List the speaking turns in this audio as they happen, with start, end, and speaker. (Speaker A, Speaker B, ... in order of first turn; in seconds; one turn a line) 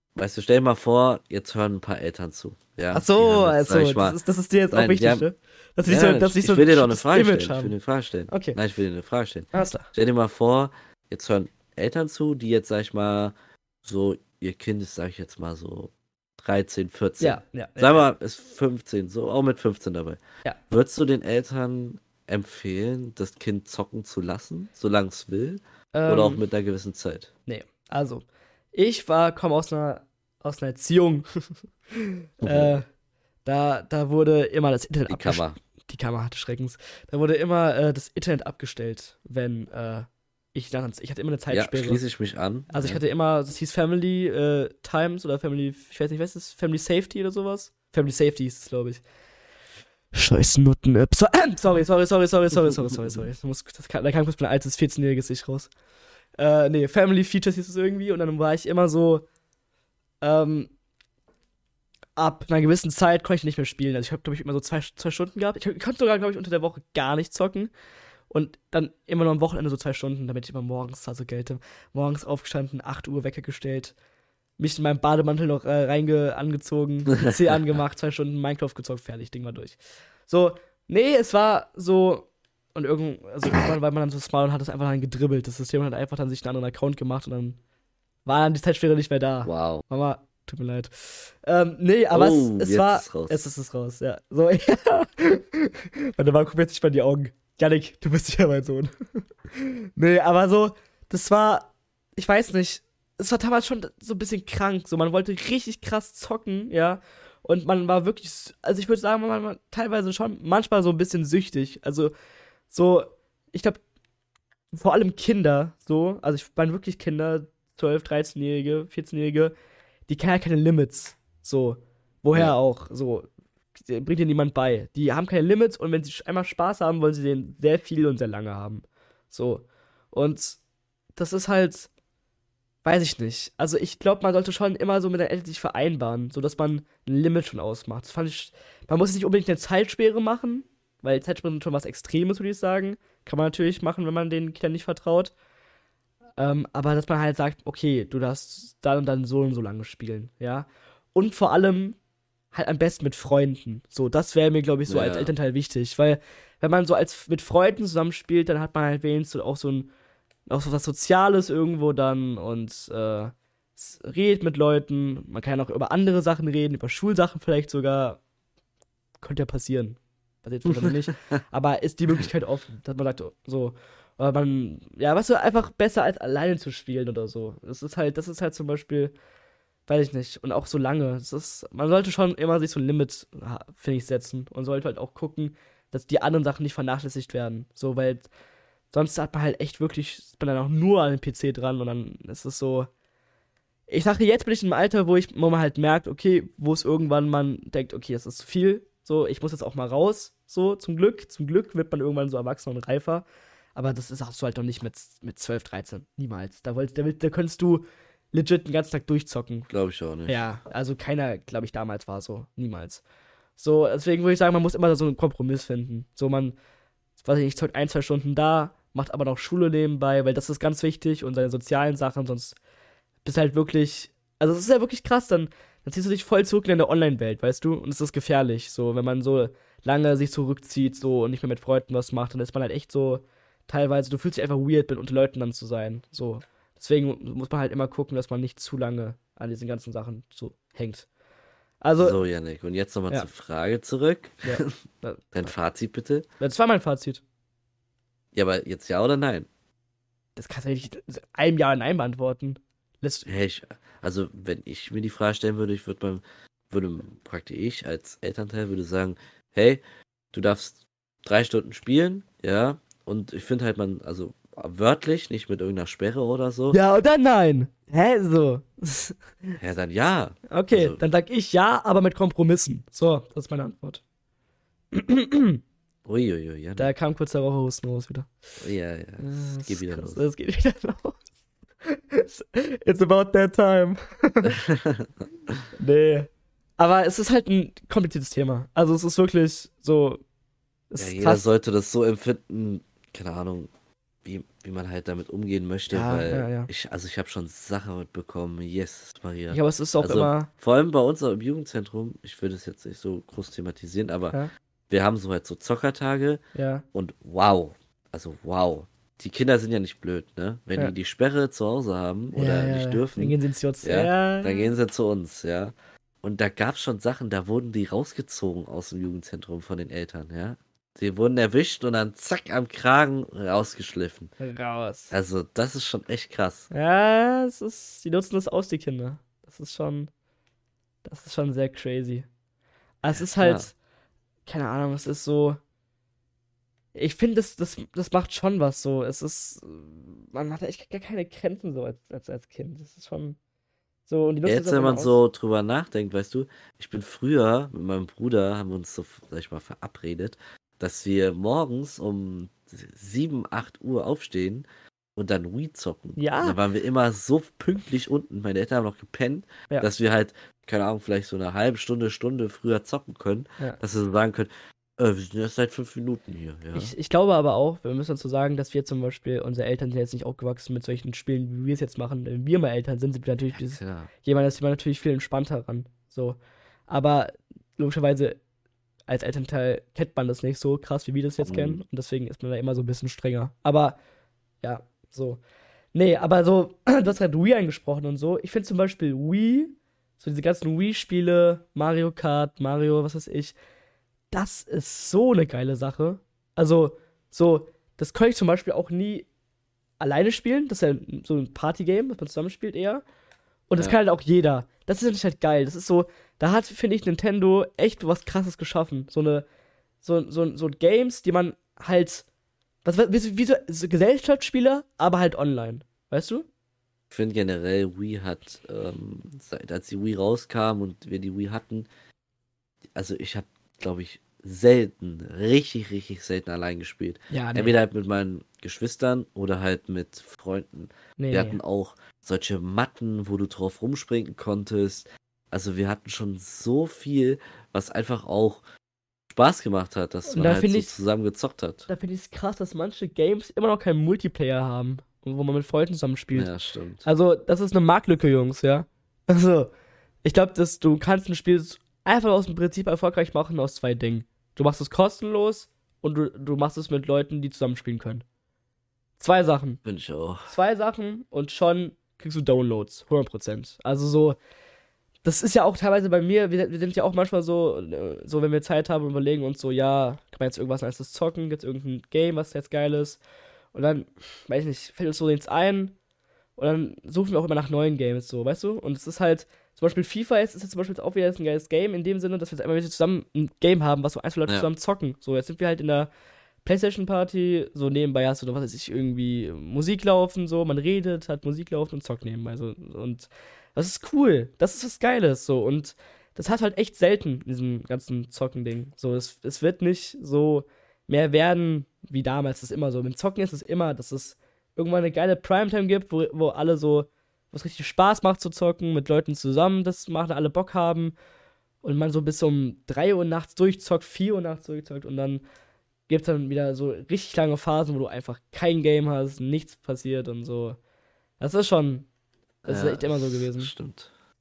Speaker A: 0.1-4.2
Speaker B: 2.9-7.7
Speaker A: 4.7-5.2
Speaker A: 5.8-27.3
Speaker B: 8.3-8.6
Speaker B: 9.5-9.9
Speaker B: 17.2-18.0
Speaker B: 25.9-26.4
Speaker B: 27.5-31.3
Speaker B: 31.9-32.9
Speaker A: 32.4-32.8
Speaker B: 33.4-42.0
Speaker A: 35.1-35.6
Speaker A: 41.5-43.0
Speaker B: 42.7-49.0
Speaker B: 50.1-55.7
Speaker B: 56.4-59.2
Speaker B: 60.2-60.7
Speaker B: 62.1-67.7
Speaker B: 68.3-73.9
Speaker B: 74.6-87.6
Speaker B: 88.2-98.9
Speaker A: 89.4-89.8
Speaker A: 92.1-93.4
Speaker B: 99.5-112.1
Speaker B: 112.7-113.8
Speaker B: 114.7-119.5
Speaker B: 120.1-130.6
Speaker B: 131.2-131.9
Speaker B: 132.8-145.3
Speaker B: 146.4-152.0
Speaker B: 152.5-159.9
Speaker A: 154.9-155.3
Speaker B: 160.5-168.2
Speaker B: 169.2-179.1
Speaker B: 179.9-188.3
Speaker B: 188.9-192.9
Speaker B: 193.9-209.7
Speaker A: 209.7-210.4
Speaker B: 210.2-213.0
Speaker B: 213.6-216.6
Speaker B: 217.2-222.6
Speaker B: 223.2-241.1
Speaker B: 241.8-242.2
Speaker A: 242.0-244.7
Speaker B: 244.4-245.3
Speaker A: 245.3-246.2
Speaker B: 246.4-247.2
Speaker A: 248.3-249.5
Speaker B: 250.3-253.3
Speaker A: 253.2-259.8
Speaker A: 260.3-266.8
Speaker B: 266.7-269.5
Speaker A: 269.6-271.0
Speaker B: 270.5-274.0
Speaker B: 274.9-275.6
Speaker A: 276.0-276.9
Speaker B: 276.8-278.3
Speaker A: 278.6-280.2
Speaker B: 279.2-281.2
Speaker B: 281.8-284.6
Speaker A: 284.4-285.6
Speaker B: 285.8-290.2
Speaker B: 290.9-291.5
Speaker A: 291.0-293.7
Speaker A: 294.2-304.4
Speaker B: 295.9-296.7
Speaker B: 299.5-300.5
Speaker A: 304.9-306.4
Speaker B: 306.5-306.8
Speaker A: 306.9-324.3
Speaker B: 312.3-314.7
Speaker B: 324.4-325.1
Speaker A: 325.1-326.7
Speaker B: 326.7-330.1
Speaker B: 331.0-332.3
Speaker B: 333.0-333.7
Speaker A: 333.1-333.7
Speaker B: 334.4-335.6
Speaker B: 336.9-343.4
Speaker B: 344.1-345.2
Speaker A: 344.4-366.9
Speaker B: 356.2-356.6
Speaker B: 366.7-378.4
Speaker A: 373.5-374.1
Speaker B: 379.1-384.0
Speaker A: 381.4-381.8
Speaker B: 384.6-385.4
Speaker B: 385.9-393.6
Speaker B: 394.3-399.3
Speaker B: 400.0-403.0
Speaker B: 403.7-409.4
Speaker B: 410.0-412.2
Speaker B: 412.8-416.4
Speaker A: 417.1-421.9
Speaker A: 422.9-438.6
Speaker B: 427.3-427.8
Speaker B: 431.2-431.6
Speaker A: 439.3-441.9
Speaker B: 440.3-440.9
Speaker B: 441.9-446.5
Speaker A: 446.3-447.1
Speaker B: 447.0-449.7
Speaker B: 450.2-458.2
Speaker B: 459.2-459.8
Speaker A: 459.8-460.5
Speaker B: 460.4-464.4
Speaker B: 465.2-473.2
Speaker B: 473.7-475.9
Speaker B: 476.6-486.1
Speaker B: 486.6-511.1
Speaker B: 511.8-515.4
Speaker B: 516.1-520.8
Speaker B: 521.4-522.1
Speaker A: 522.6-524.1
Speaker B: 522.7-523.7